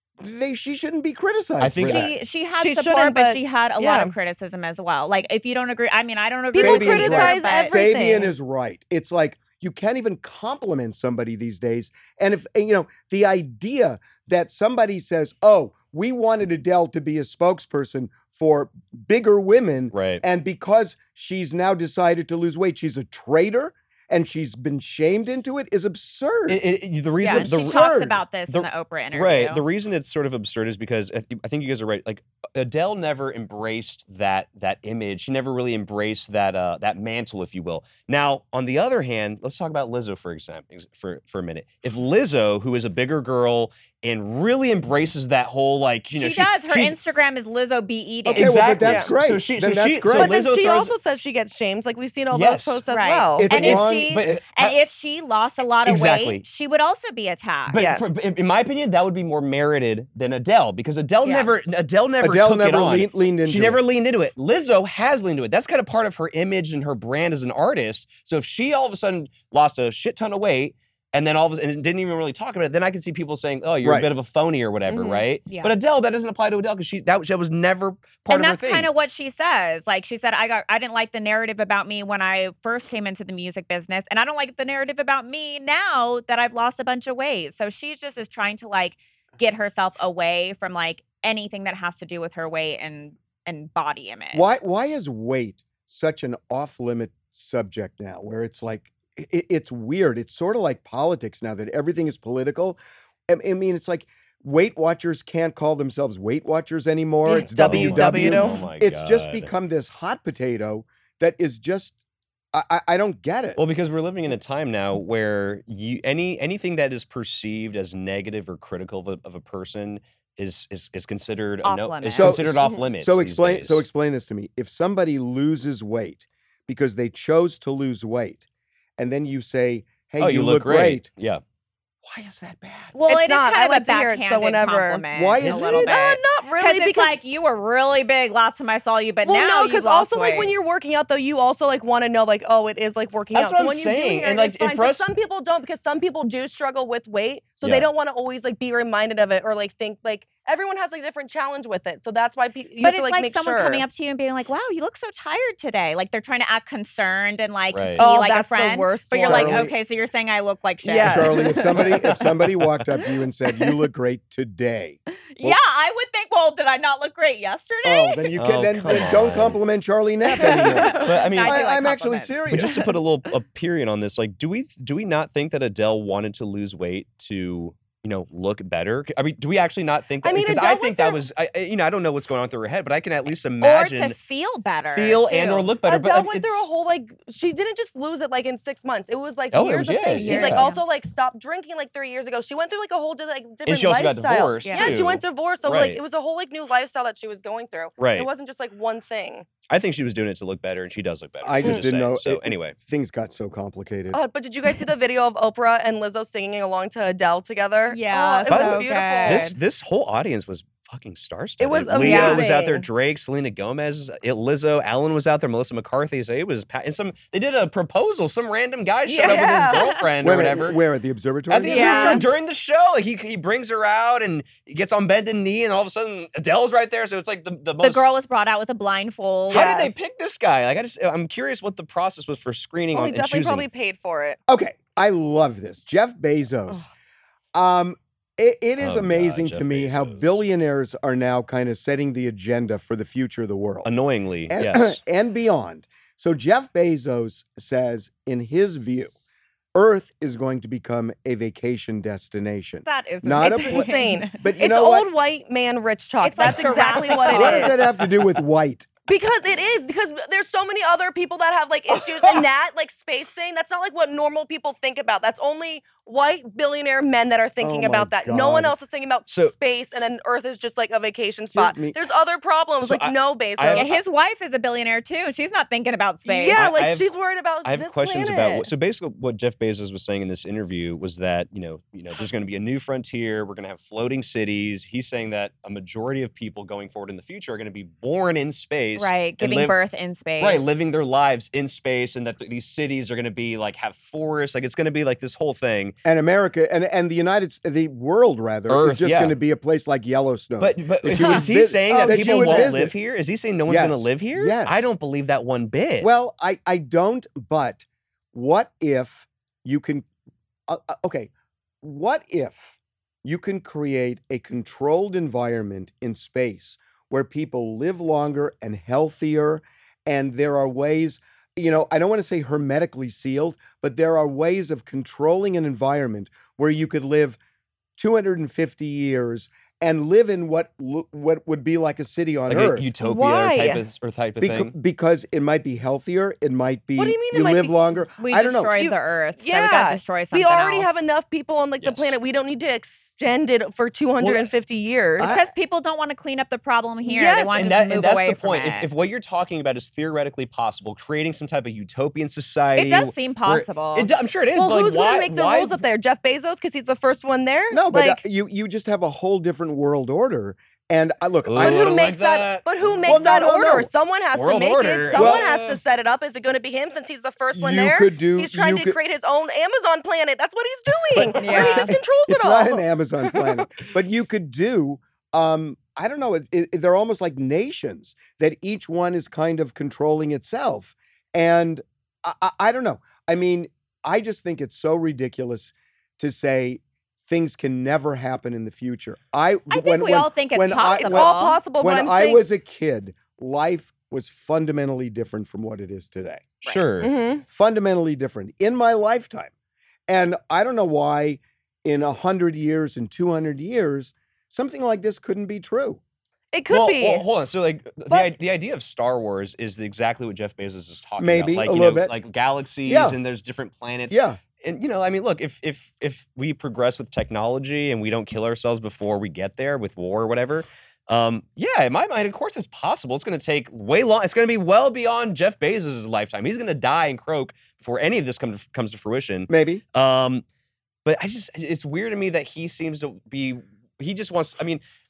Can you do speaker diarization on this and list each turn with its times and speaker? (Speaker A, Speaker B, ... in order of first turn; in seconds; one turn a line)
Speaker A: 0.2-2.1
Speaker B: 1.6-2.1
Speaker C: 1.8-8.1
Speaker D: 2.6-4.1
Speaker D: 6.5-8.3
Speaker A: 6.5-26.6
Speaker B: 19.9-20.2
Speaker B: 26.5-47.0
Speaker C: 27.2-29.6
Speaker A: 27.2-28.2
Speaker C: 46.1-48.6
Speaker B: 48.3-50.9
Speaker A: 48.3-50.4
Speaker D: 48.8-49.1
Speaker D: 50.1-53.5
Speaker B: 52.3-52.8
Speaker C: 52.9-57.8
Speaker A: 53.4-54.4
Speaker B: 53.5-54.8
Speaker B: 55.9-56.4
Speaker B: 57.7-78.9
Speaker D: 57.8-58.1
Speaker C: 61.2-61.5
Speaker A: 62.2-63.8
Speaker A: 73.8-74.1
Speaker D: 74.9-75.2
Speaker C: 75.5-75.7
Speaker C: 78.3-94.5
Speaker A: 94.3-112.0
Speaker D: 107.2-108.6
Speaker B: 107.5-109.5
Speaker A: 112.5-113.6
Speaker B: 113.6-123.8
Speaker C: 121.6-122.4
Speaker A: 122.2-128.4
Speaker A: 129.0-131.1
Speaker B: 130.2-131.4
Speaker A: 132.1-132.9
Speaker C: 132.9-140.5
Speaker D: 133.1-137.2
Speaker A: 135.1-135.9
Speaker B: 135.4-135.8
Speaker D: 139.2-153.8
Speaker B: 143.3-145.1
Speaker B: 147.6-147.9
Speaker C: 152.8-161.5
Speaker B: 157.7-158.0
Speaker D: 158.0-159.7
Speaker A: 159.2-159.7
Speaker D: 160.8-161.9
Speaker A: 161.0-165.6
Speaker B: 162.2-162.7
Speaker C: 165.3-168.3
Speaker A: 167.8-172.9
Speaker B: 168.4-169.6
Speaker C: 170.4-172.9
Speaker B: 170.9-171.7
Speaker B: 172.5-184.2
Speaker D: 180.2-181.2
Speaker C: 183.6-185.7
Speaker B: 184.9-186.7
Speaker D: 185.9-199.5
Speaker B: 189.5-190.7
Speaker C: 190.2-190.8
Speaker B: 193.7-196.0
Speaker C: 194.6-194.9
Speaker B: 198.0-198.3
Speaker B: 199.7-202.8
Speaker A: 201.4-204.2
Speaker D: 201.6-201.9
Speaker D: 204.1-209.5
Speaker C: 207.9-209.6
Speaker B: 208.5-220.8
Speaker D: 211.6-212.9
Speaker C: 212.0-212.5
Speaker C: 219.1-220.0
Speaker D: 219.2-219.9
Speaker A: 220.2-222.2
Speaker B: 221.5-228.1
Speaker C: 221.7-222.2
Speaker C: 227.8-229.9
Speaker B: 229.5-233.7
Speaker D: 229.5-229.9
Speaker D: 232.9-234.4
Speaker A: 234.5-236.9
Speaker A: 237.5-243.9
Speaker B: 238.8-240.4
Speaker B: 243.8-245.0
Speaker A: 244.5-249.1
Speaker A: 249.7-255.1
Speaker C: 252.8-254.3
Speaker D: 253.4-257.8
Speaker C: 256.2-257.8
Speaker B: 256.4-257.3
Speaker A: 257.3-258.9
Speaker D: 259.1-274.0
Speaker A: 261.9-262.5
Speaker A: 267.6-268.8
Speaker B: 269.3-269.5
Speaker A: 271.5-272.0
Speaker B: 272.8-273.9
Speaker C: 273.7-276.6
Speaker D: 276.2-278.7
Speaker B: 276.5-277.1
Speaker B: 277.6-289.8
Speaker C: 289.0-290.7
Speaker B: 290.4-295.9
Speaker A: 296.1-303.0
Speaker B: 298.7-299.4
Speaker B: 300.6-306.1
Speaker D: 301.9-302.7
Speaker C: 301.9-302.2
Speaker A: 303.7-304.9
Speaker A: 306.0-310.1
Speaker A: 310.7-311.3
Speaker A: 311.8-327.4
Speaker A: 328.0-332.9
Speaker B: 332.5-334.7
Speaker D: 333.0-333.8
Speaker A: 334.4-338.9
Speaker D: 337.0-337.8
Speaker C: 338.2-341.1
Speaker D: 338.7-345.3
Speaker B: 341.8-342.1
Speaker B: 344.2-344.5
Speaker A: 345.2-345.5
Speaker C: 345.2-348.9
Speaker D: 347.1-347.6
Speaker B: 347.6-355.8
Speaker C: 352.8-354.1
Speaker D: 354.6-358.2
Speaker A: 357.7-362.1
Speaker B: 361.4-363.2
Speaker D: 361.6-373.6
Speaker A: 363.0-363.9
Speaker B: 364.3-365.8
Speaker A: 365.1-365.5
Speaker A: 367.5-369.0
Speaker A: 371.1-396.6
Speaker C: 371.4-371.9
Speaker C: 389.7-391.6
Speaker D: 390.9-392.4
Speaker B: 396.6-397.1
Speaker D: 396.7-397.4
Speaker A: 397.5-399.5
Speaker A: 400.1-406.0
Speaker D: 406.5-407.2
Speaker B: 406.7-430.4
Speaker A: 411.2-412.1
Speaker A: 412.9-413.2
Speaker A: 414.1-414.4
Speaker A: 429.5-429.8
Speaker B: 431.1-434.8